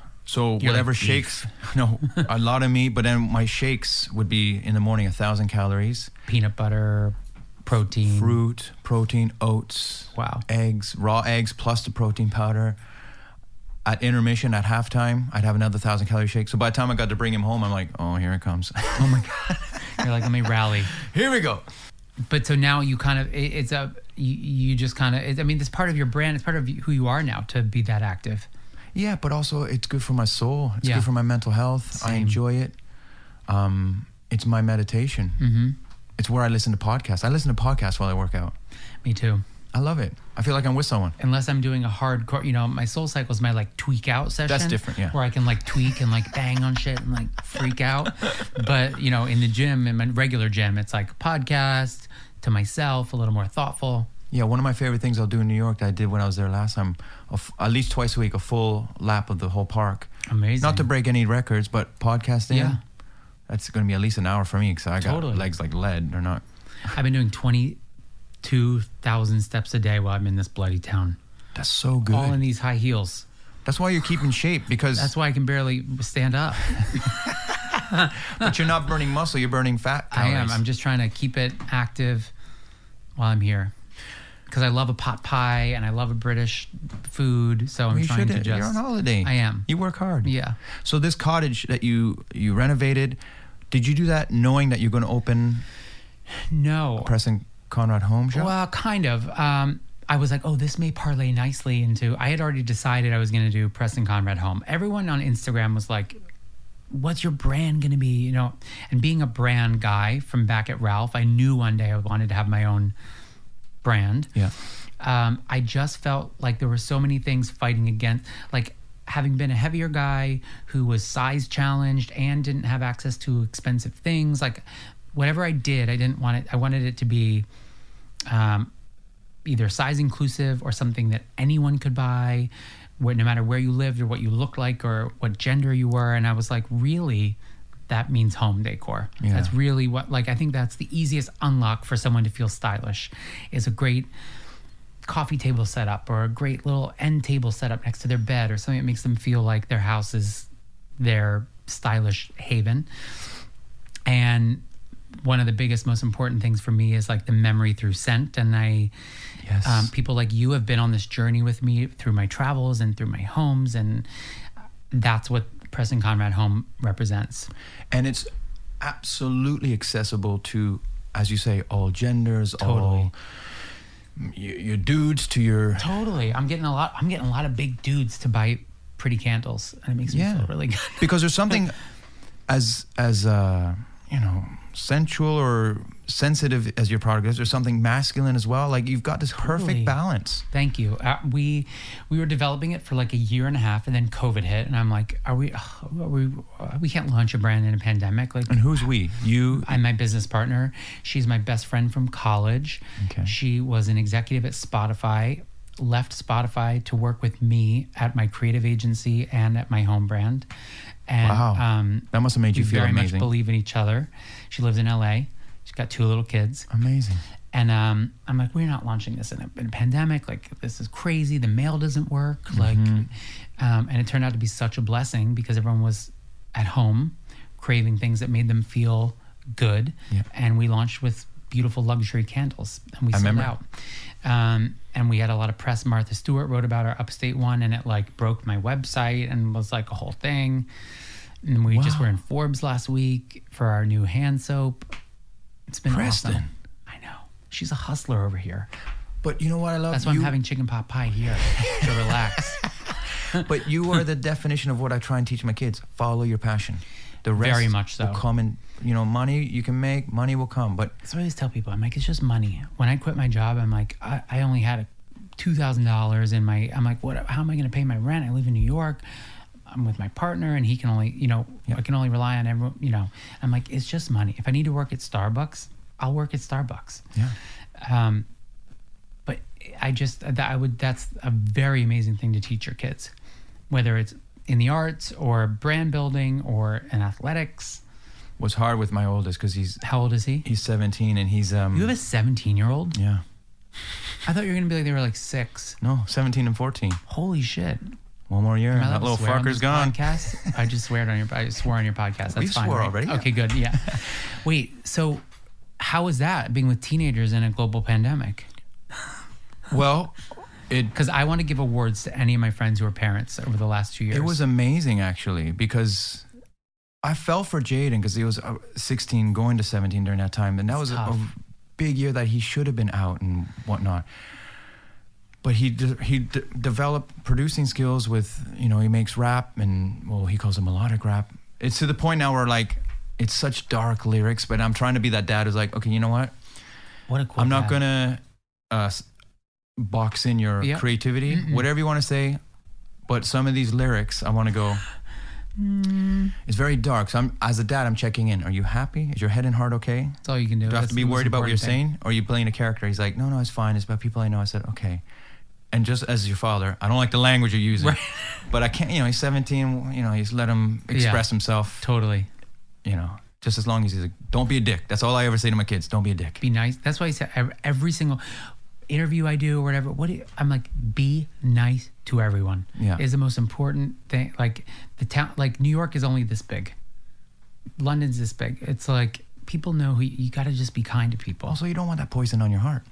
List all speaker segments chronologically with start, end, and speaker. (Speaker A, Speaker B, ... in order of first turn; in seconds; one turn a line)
Speaker A: 0.2-6.1
Speaker B: 0.6-1.5
Speaker B: 6.3-8.4
Speaker A: 8.0-12.8
Speaker B: 10.1-10.4
Speaker A: 13.8-20.0
Speaker B: 18.9-20.9
Speaker A: 20.9-21.6
Speaker B: 22.2-28.5
Speaker A: 28.9-32.8
Speaker B: 30.8-31.1
Speaker B: 31.9-32.4
Speaker A: 33.5-35.4
Speaker B: 35.4-35.8
Speaker A: 36.2-38.5
Speaker B: 39.0-39.4
Speaker A: 39.7-41.1
Speaker B: 41.2-54.1
Speaker A: 44.5-45.2
Speaker A: 54.3-62.8
Speaker B: 60.3-60.9
Speaker B: 62.5-62.8
Speaker A: 63.5-66.4
Speaker B: 65.0-65.5
Speaker B: 66.9-67.8
Speaker B: 68.4-71.2
Speaker A: 71.5-72.4
Speaker B: 72.1-73.2
Speaker A: 73.6-75.1
Speaker B: 75.0-77.3
Speaker B: 77.9-78.4
Speaker A: 78.0-80.6
Speaker B: 80.1-82.3
Speaker B: 83.2-83.7
Speaker B: 84.5-89.7
Speaker A: 87.9-95.7
Speaker B: 90.2-90.6
Speaker B: 96.3-97.1
Speaker A: 97.0-98.5
Speaker B: 98.3-106.2
Speaker B: 106.9-112.9
Speaker B: 113.8-114.3
Speaker B: 115.0-127.5
Speaker B: 128.3-128.7
Speaker B: 129.4-137.4
Speaker B: 137.9-144.1
Speaker A: 139.2-139.5
Speaker B: 145.0-152.9
Speaker B: 154.1-154.6
Speaker B: 155.2-158.9
Speaker A: 159.4-159.9
Speaker B: 159.6-164.1
Speaker B: 164.9-167.5
Speaker A: 167.9-173.1
Speaker B: 172.6-173.1
Speaker A: 174.2-176.0
Speaker B: 175.8-181.1
Speaker A: 180.1-181.8
Speaker A: 182.5-190.4
Speaker B: 189.4-190.0
Speaker B: 190.5-198.7
Speaker A: 198.5-199.8
Speaker B: 199.5-210.5
Speaker A: 203.0-203.3
Speaker B: 211.1-216.7
Speaker A: 211.2-213.3
Speaker A: 216.7-217.2
Speaker B: 217.5-233.7
Speaker A: 222.5-223.1
Speaker A: 233.1-233.5
Speaker B: 234.2-240.7
Speaker B: 241.4-244.9
Speaker A: 241.7-242.1
Speaker B: 245.7-248.7
Speaker A: 245.9-246.5
Speaker A: 249.2-250.4
Speaker B: 249.9-252.6
Speaker A: 251.6-252.4
Speaker A: 253.3-260.9
Speaker B: 257.4-258.2
Speaker B: 261.0-269.0
Speaker B: 269.7-277.0
Speaker B: 277.8-278.3
Speaker B: 279.2-283.1
Speaker B: 283.7-287.8
Speaker A: 288.4-289.8
Speaker B: 289.8-290.5
Speaker A: 290.4-291.9
Speaker B: 291.7-293.0
Speaker A: 292.9-293.2
Speaker B: 294.2-295.8
Speaker A: 295.8-297.0
Speaker B: 297.1-297.9
Speaker A: 298.3-300.6
Speaker B: 298.7-305.2
Speaker A: 302.3-304.0
Speaker B: 305.8-308.5
Speaker A: 309.7-310.9
Speaker B: 310.9-314.4
Speaker A: 314.1-316.2
Speaker A: 317.0-324.1
Speaker B: 320.7-321.2
Speaker A: 325.4-336.3
Speaker B: 337.1-337.8
Speaker A: 337.4-339.1
Speaker A: 339.8-342.4
Speaker B: 340.6-341.6
Speaker A: 343.1-344.8
Speaker B: 345.6-346.3
Speaker A: 346.4-355.0
Speaker B: 350.2-351.8
Speaker A: 355.7-361.9
Speaker B: 357.8-358.4
Speaker B: 360.9-361.2
Speaker B: 361.8-362.3
Speaker A: 362.8-366.4
Speaker B: 366.4-376.7
Speaker A: 372.8-373.0
Speaker B: 377.8-381.6
Speaker A: 381.4-382.8